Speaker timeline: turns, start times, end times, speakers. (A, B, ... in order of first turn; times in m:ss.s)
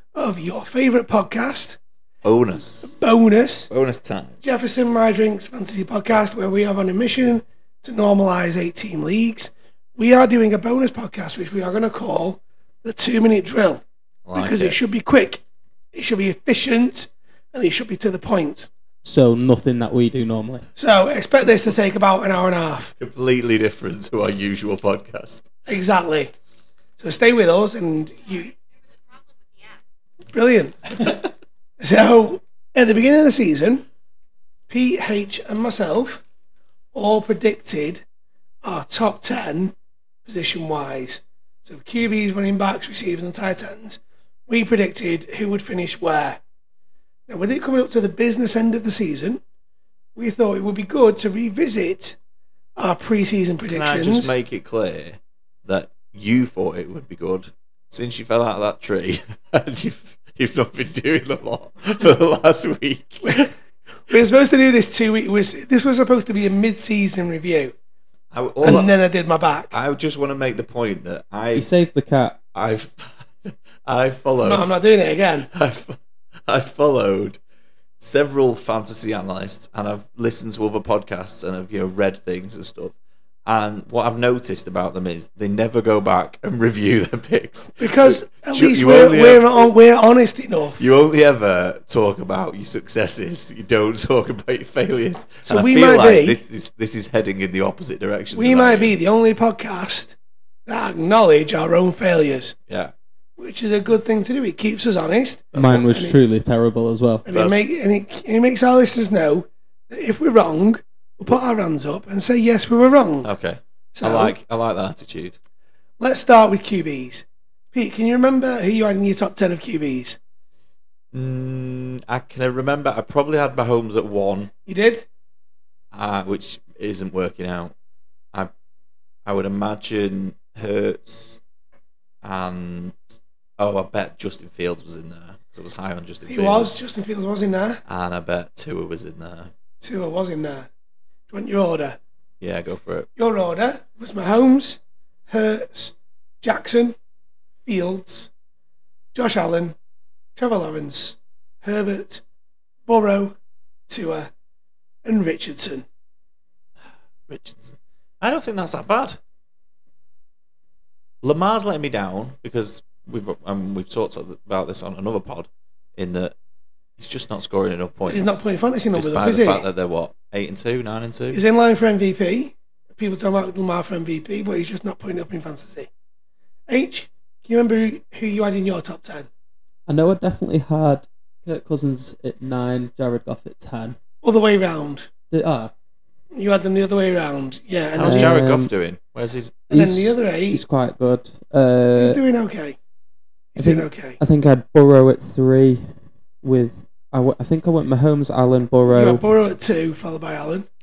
0:00.2-0:01.8 A
0:02.2-0:03.0 B
0:02.8-0:03.7 A
0:03.7-0:04.4 B
0:04.4-0:13.8 A
0:14.3-0:14.8 B
0:14.4-0:15.4 A
0:15.9-0:18.7 A
0:19.0-0:20.7 C
0:20.8-0:23.0 A
0:23.0-0:25.5 B
0:25.7-0:26.3 A
0:27.0-0:28.6 A
0:30.3-0:31.0 A
0:31.8-0:33.8 A
0:34.7-0:36.2 A
0:36.9-0:38.0 A
0:38.6-0:39.7 A
0:40.3-0:46.4 A
0:47.3-0:49.4 A
0:50.2-0:52.2 A
0:52.8-0:54.4 A
0:53.7-1:03.5 B
1:03.2-1:03.5 A
1:04.1-1:07.8 A
1:08.3-1:08.9 B
1:08.6-1:09.8 A
1:09.7-1:11.7 B
1:11.5-1:12.4 C
1:12.6-1:14.7 B
1:14.4-1:15.5 A
1:15.5-1:17.4 B
1:18.0-1:29.7 B
1:27.8-1:30.9 A
1:30.8-1:39.0 B
1:35.5-1:36.4 A
1:38.3-1:40.2 A
1:40.7-1:42.6 A
1:42.7-1:42.9 B
1:43.4-1:46.2 A
1:45.5-1:45.9 B
1:45.6-1:47.2 C
1:47.2-1:53.3 A
1:47.3-1:47.6 B
1:53.2-1:55.4 B
1:54.0-1:54.4 A
1:56.0-2:00.2 A
2:01.1-2:04.5 B
2:04.7-2:05.1 A
2:05.9-2:07.7 B
2:09.2-2:11.4 B
2:12.2-2:13.0 B
2:13.6-2:16.8 B
2:16.3-2:17.8 A
2:17.9-2:19.5 B
2:19.8-2:20.7 A
2:21.3-2:22.0 A
2:22.4-2:23.1 B
2:23.2-2:27.0 A
2:27.7-2:28.3 A
2:29.1-2:29.8 A
2:30.4-2:32.2 A
2:32.9-2:33.4 A
2:33.9-2:34.3 A
2:35.0-2:35.8 A
2:37.3-2:39.2 B
2:41.2-2:46.4 B
2:47.0-2:48.4 B
2:48.1-2:49.7 A
2:48.9-2:51.4 B
2:51.3-2:55.9 A
2:56.7-2:59.3 A
2:59.9-3:04.0 C
3:04.2-3:05.1 A
3:05.3-3:05.7 C
3:06.3-3:08.4 A
3:07.9-3:09.7 B
3:08.0-3:08.7 C
3:09.7-3:10.6 A
3:09.7-3:12.2 C
3:12.0-3:12.8 A
3:13.5-3:14.2 A
3:13.6-3:15.9 C
3:16.4-3:19.2 C
3:18.9-3:20.7 A